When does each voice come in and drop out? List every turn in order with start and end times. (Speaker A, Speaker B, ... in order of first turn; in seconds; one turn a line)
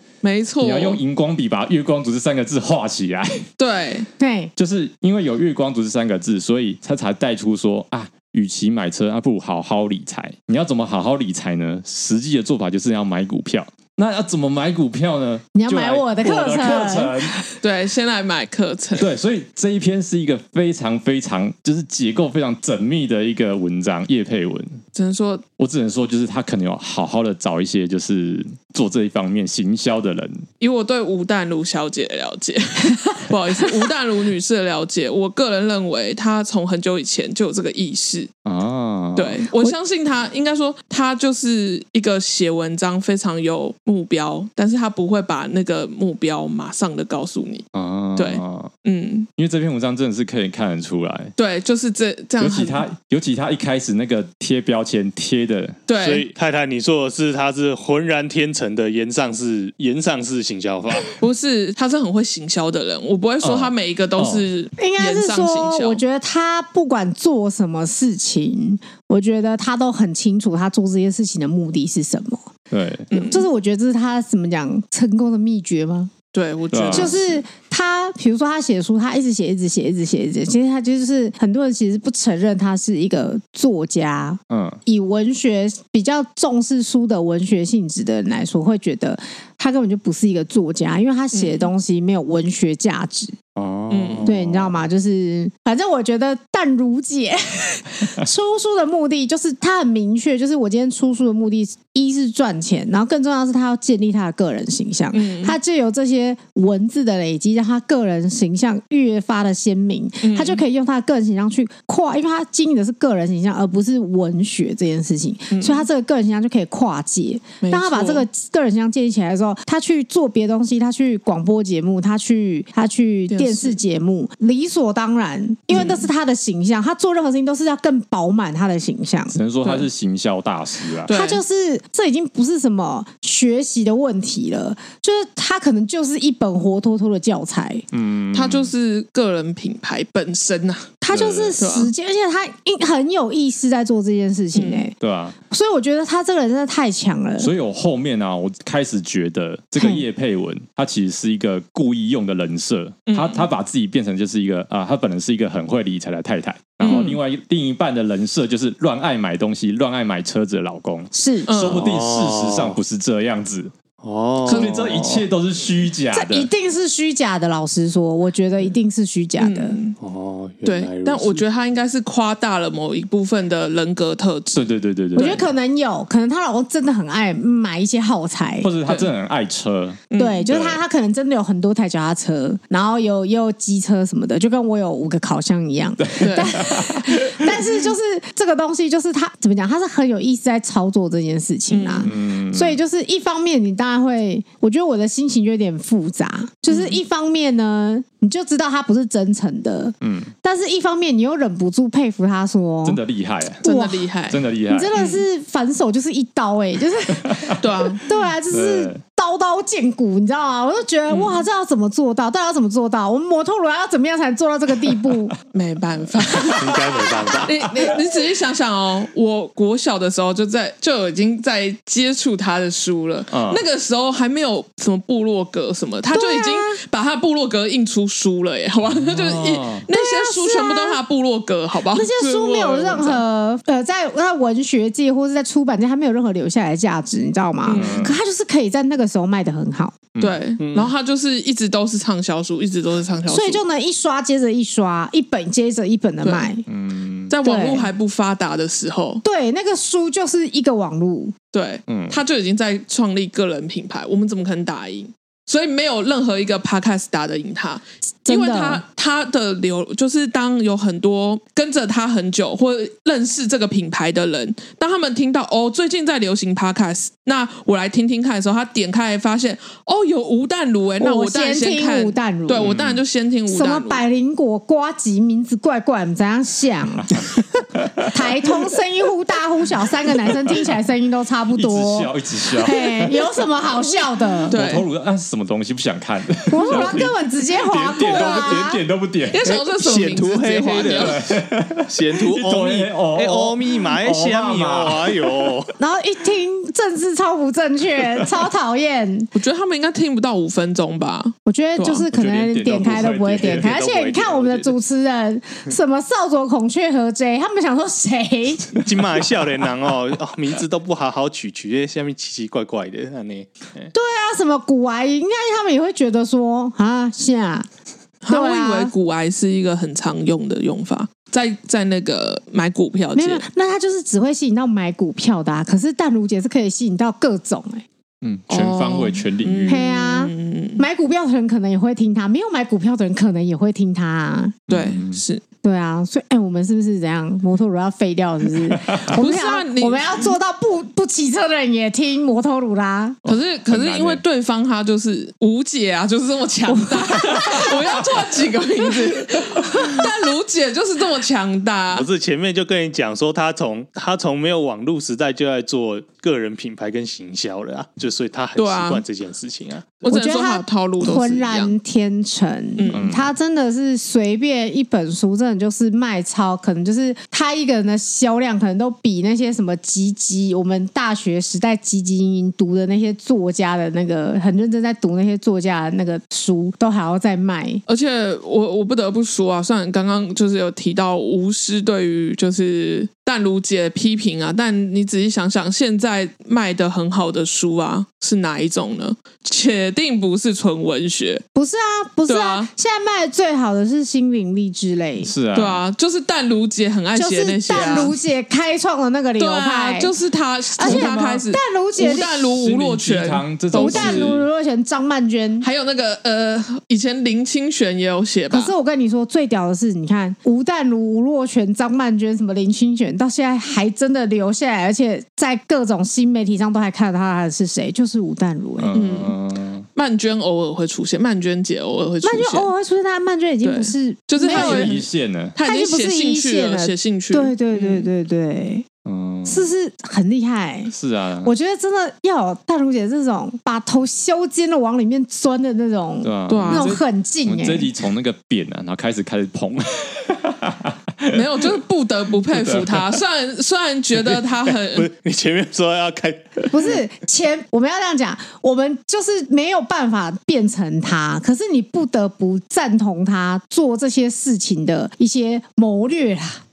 Speaker A: 0.2-1.0
Speaker B: 0.6-3.5
Speaker A: 3.6-4.1
Speaker C: 4.2-4.5
Speaker B: 4.5-17.4
Speaker C: 15.5-17.4
Speaker A: 17.6-19.1
Speaker B: 19.0-24.8
Speaker A: 24.9-25.4
Speaker B: 25.6-30.4
Speaker A: 30.6-38.3
Speaker B: 38.4-39.4
Speaker A: 39.1-49.3
Speaker B: 47.7-48.7
Speaker B: 49.4-51.3
Speaker A: 51.4-52.8
Speaker B: 52.4-55.8
Speaker A: 55.9-56.3
Speaker D: 55.9-61.1
Speaker A: 61.2-66.0
Speaker B: 63.4-64.5
Speaker C: 64.8-72.5
Speaker B: 72.7-73.1
Speaker A: 73.1-73.5
Speaker C: 73.1-76.1
Speaker A: 76.3-77.2
Speaker B: 76.7-77.2
Speaker C: 76.9-93.3
Speaker B: 84.5-84.8
Speaker A: 91.3-91.7
Speaker B: 93.5-94.7
Speaker A: 93.9-94.3
Speaker C: 94.2-129.3
Speaker A: 105.1-105.5
Speaker A: 110.2-110.6
Speaker A: 115.5-115.9
Speaker A: 117.6-118.2
Speaker A: 123.3-123.8
Speaker A: 125.7-126.1
Speaker B: 129.3-131.1
Speaker A: 131.1-131.4
Speaker C: 131.1-137.8
Speaker B: 137.9-138.7
Speaker A: 138.3-141.0
Speaker C: 141.0-144.9
Speaker B: 141.1-141.6
Speaker A: 141.6-141.9
Speaker A: 144.5-144.9
Speaker B: 145.0-145.3
Speaker C: 145.5-147.5
Speaker B: 147.4-163.7
Speaker C: 149.8-150.0
Speaker A: 153.1-153.5
Speaker A: 156.8-157.1
Speaker C: 156.8-157.2
Speaker C: 161.1-161.5
Speaker A: 161.5-161.9
Speaker D: 161.7-162.8
Speaker D: 164.0-165.3
Speaker A: 164.4-164.8
Speaker B: 164.4-166.5
Speaker C: 166.1-169.8
Speaker A: 169.4-170.0
Speaker D: 170.0-171.4
Speaker A: 170.6-175.4
Speaker B: 174.5-175.4
Speaker C: 175.2-178.7
Speaker B: 178.6-180.8
Speaker A: 180.1-180.5
Speaker C: 180.2-203.0
Speaker B: 186.0-187.5
Speaker A: 186.2-186.6
Speaker A: 191.7-192.1
Speaker B: 192.1-192.8
Speaker A: 196.7-197.0
Speaker B: 200.0-200.3
Speaker B: 202.8-203.6
Speaker C: 203.6-204.1
Speaker A: 203.6-204.4
Speaker B: 204.3-204.9
Speaker C: 204.7-215.3
Speaker A: 204.9-205.2
Speaker B: 207.1-207.6
Speaker A: 207.6-208.1
Speaker B: 208.5-209.0
Speaker A: 211.1-211.4
Speaker A: 215.5-233.2
Speaker D: 216.6-217.6
Speaker B: 223.3-223.6
Speaker C: 226.1-226.8
Speaker B: 228.9-229.8
Speaker C: 229.9-231.0
Speaker C: 231.9-240.0
Speaker A: 237.6-238.1
Speaker B: 237.7-238.2
Speaker A: 240.2-243.6
Speaker D: 240.6-240.9
Speaker C: 243.3-246.6
Speaker A: 246.2-246.5
Speaker B: 246.7-247.3
Speaker A: 247.3-249.2
Speaker C: 247.4-247.9
Speaker C: 249.2-251.3
Speaker A: 251.5-274.0
Speaker B: 251.9-252.2
Speaker C: 258.2-258.8
Speaker C: 271.0-272.8
Speaker B: 272.6-273.0
Speaker C: 273.5-284.6
Speaker B: 277.1-278.1
Speaker B: 281.5-283.2
Speaker B: 284.5-289.5
Speaker A: 284.5-284.9
Speaker C: 286.5-288.8
Speaker A: 286.6-287.0
Speaker A: 288.0-288.6
Speaker A: 289.3-291.2
Speaker D: 289.4-291.3
Speaker B: 290.8-295.5
Speaker D: 291.9-295.7
Speaker C: 295.8-299.3
Speaker A: 299.3-302.1
Speaker C: 301.4-308.8
Speaker B: 302.1-303.7
Speaker D: 303.4-304.8
Speaker D: 308.7-313.9
Speaker C: 313.9-317.7
Speaker A: 318.2-323.4
Speaker C: 318.3-318.9
Speaker C: 323.1-327.8
Speaker B: 328.2-329.8
Speaker A: 328.5-330.8
Speaker C: 329.7-334.6
Speaker B: 334.7-335.2
Speaker A: 334.7-335.4
Speaker C: 335.6-343.2
Speaker B: 338.7-339.1
Speaker A: 339.1-340.3
Speaker B: 343.2-344.2
Speaker A: 343.2-352.1
Speaker C: 346.7-348.0
Speaker C: 349.0-350.1
Speaker D: 351.9-360.1
Speaker A: 358.6-359.0
Speaker A: 360.0-361.7
Speaker C: 360.1-377.8
Speaker A: 362.8-363.1
Speaker B: 362.9-363.3
Speaker A: 377.9-391.4
Speaker C: 391.5-395.3
Speaker A: 392.3-392.7
Speaker B: 395.2-395.8
Speaker A: 395.5-398.2
Speaker C: 397.1-400.1
Speaker A: 399.4-404.4
Speaker C: 400.8-402.4
Speaker B: 402.4-404.5
Speaker C: 403.8-405.7
Speaker A: 405.6-408.7
Speaker C: 408.5-419.0
Speaker B: 418.8-419.9
Speaker A: 418.9-419.4
Speaker A: 419.9-422.7
Speaker C: 422.2-425.0
Speaker A: 423.6-425.0
Speaker B: 424.4-425.6
Speaker A: 425.5-428.1
Speaker C: 425.6-428.9
Speaker B: 429.0-429.7
Speaker C: 429.5-437.9
Speaker B: 430.9-431.5
Speaker B: 436.2-441.4
Speaker A: 436.5-436.9
Speaker A: 441.3-445.1
Speaker B: 442.5-443.2
Speaker D: 444.9-446.7
Speaker C: 446.7-456.6